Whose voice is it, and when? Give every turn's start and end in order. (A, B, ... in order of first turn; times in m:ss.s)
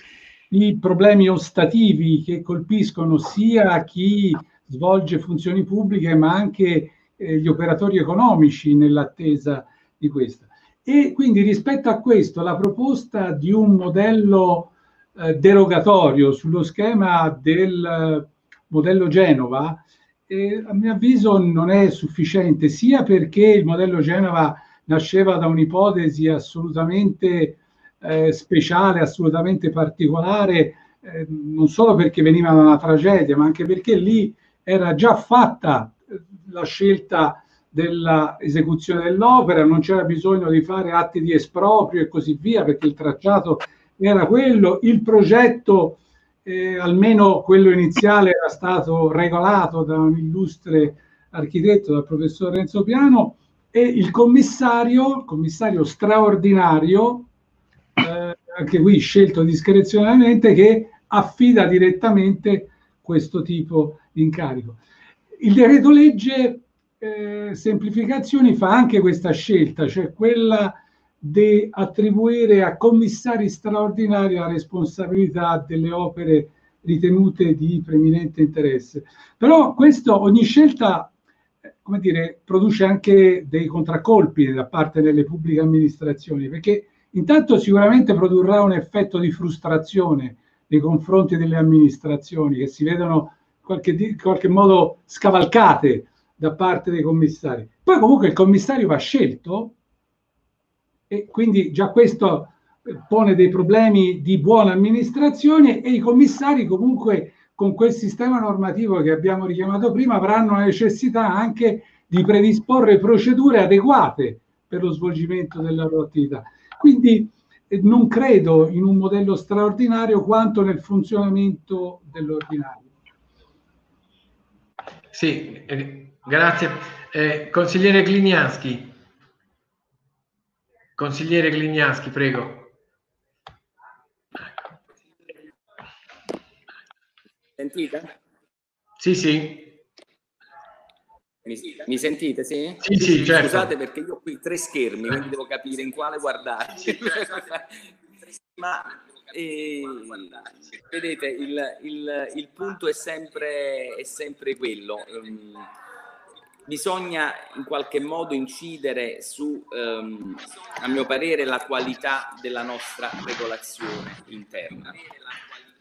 0:00.5-0:57.3 A
0:58.0-1:04.8 A
1:05.4-1:21.1 A
1:21.8-1:39.8 A
1:41.1-2:02.9 A
2:05.1-2:09.0 B
2:11.0-2:12.7 B
2:17.6-2:18.1 C
2:19.0-2:19.8 B
2:21.4-2:27.8 C
2:22.8-2:23.7 B
2:28.6-2:35.7 C
2:36.7-2:45.0 C